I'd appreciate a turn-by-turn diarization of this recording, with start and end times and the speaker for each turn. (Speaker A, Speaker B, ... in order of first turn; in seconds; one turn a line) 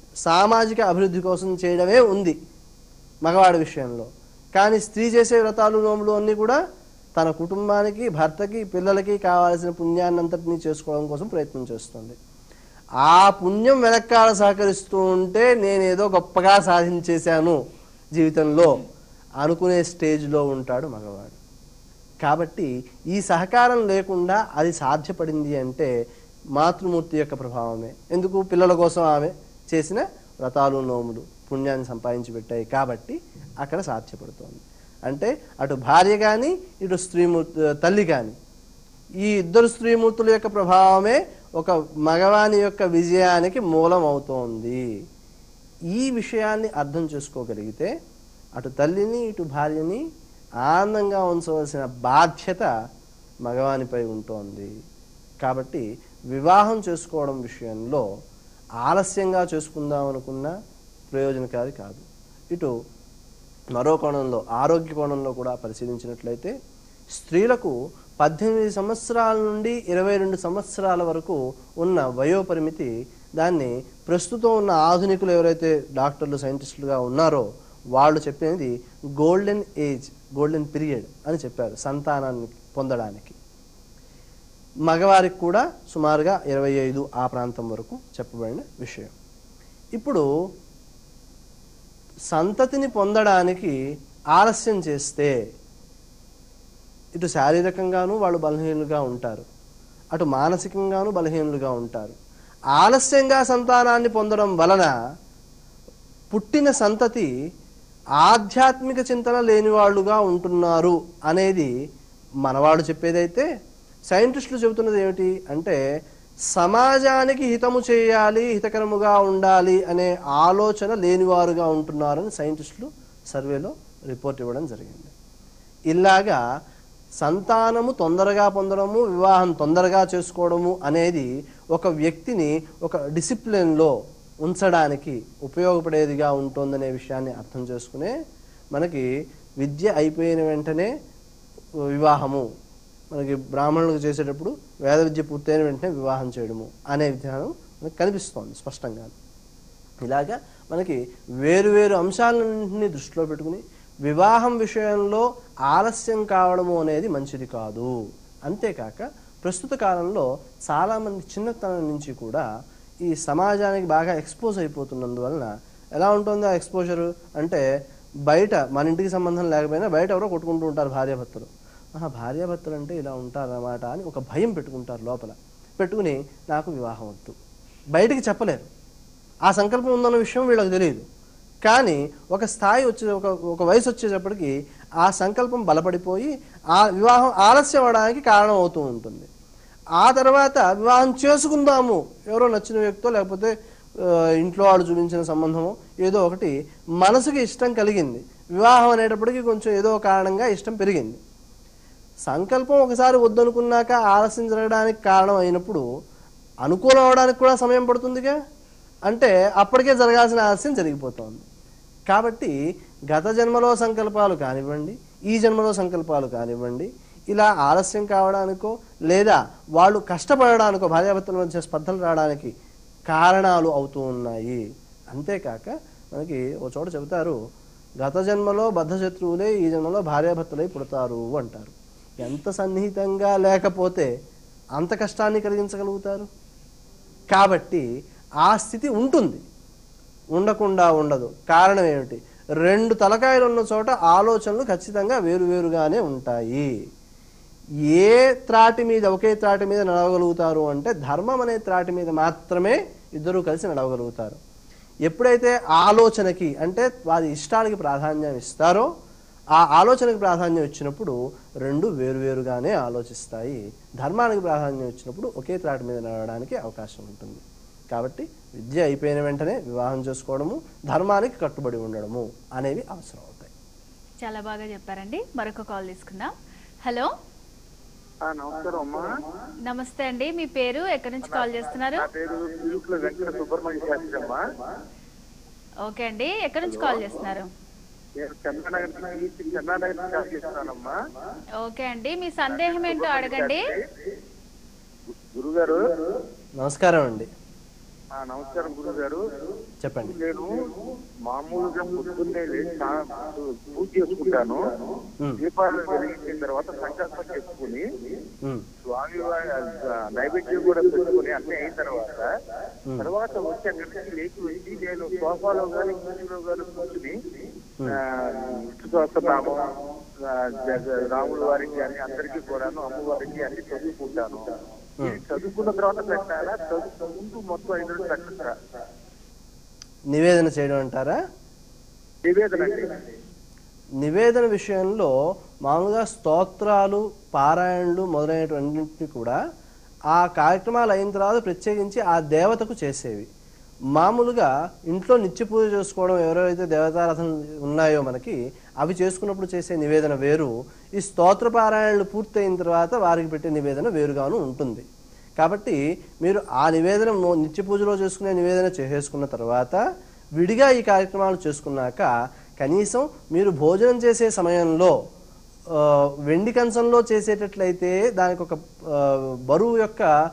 Speaker A: 0.2-2.4
Speaker A: 3.3-6.6
Speaker A: 7.2-12.2
Speaker A: 13.0-17.6
Speaker A: 18.2-18.8
Speaker A: 19.4-21.4
Speaker A: 22.2-25.9
Speaker A: 26.6-38.4
Speaker A: 39.2-44.8
Speaker A: 45.9-47.9
Speaker A: 48.6-50.0
Speaker A: 50.6-52.7
Speaker A: 53.5-54.7
Speaker A: 55.4-58.0
Speaker A: 58.8-60.5
Speaker A: 61.1-62.7
Speaker A: 63.8-66.5
Speaker A: 67.1-83.4
Speaker A: 84.9-89.1
Speaker A: 90.0-90.2
Speaker A: 92.3-93.8
Speaker A: 94.3-95.3
Speaker A: 97.2-99.5
Speaker A: 100.1-102.2
Speaker A: 102.8-104.9
Speaker A: 106.3-107.3
Speaker A: 108.2-111.7
Speaker A: 112.5-113.5
Speaker A: 114.1-115.8
Speaker A: 116.5-125.1
Speaker A: 125.9-126.4
Speaker A: 127.2-133.9
Speaker A: 134.4-138.1
Speaker A: 138.8-139.1
Speaker A: 139.6-140.9
Speaker A: 141.9-142.5
Speaker A: 143.1-149.1
Speaker A: 150.0-157.9
Speaker A: 158.5-162.4
Speaker A: 163.1-167.7
Speaker A: 168.3-177.4
Speaker A: 178.0-178.7
Speaker A: 179.5-181.1
Speaker A: 181.7-189.3
Speaker A: 190.0-201.2
Speaker A: 202.3-205.8
Speaker A: 206.7-208.4
Speaker A: 209.1-211.4
Speaker A: 212.1-212.6
Speaker A: 213.1-222.5
Speaker A: 223.1-227.4
Speaker A: 228.0-234.1
Speaker A: 234.8-236.3
Speaker A: 237.3-237.9
Speaker A: 238.4-239.4
Speaker A: 240.3-246.7
Speaker A: 247.9-254.4
Speaker A: 255.1-258.9
Speaker A: 259.6-273.5
Speaker B: 274.2-276.3
Speaker B: 276.9-277.1
Speaker C: 278.3-279.0
Speaker B: 279.7-282.1
Speaker C: 281.2-284.4
Speaker B: 285.9-287.5
Speaker C: 286.7-287.0
Speaker C: 288.2-290.9
Speaker B: 291.6-293.6
Speaker C: 292.4-293.8
Speaker C: 295.1-295.9
Speaker A: 296.6-297.3
Speaker C: 298.2-299.2
Speaker A: 299.8-300.2
Speaker C: 300.0-300.7
Speaker C: 301.2-304.6
Speaker C: 305.4-307.9
Speaker C: 308.9-312.3
Speaker C: 313.0-317.2
Speaker C: 317.9-328.6
Speaker A: 330.1-331.2
Speaker C: 332.2-333.1
Speaker A: 334.0-335.1
Speaker A: 335.6-339.4
Speaker A: 340.1-343.3
Speaker A: 344.0-354.9
Speaker A: 355.4-359.8
Speaker A: 360.4-364.9
Speaker A: 365.7-370.1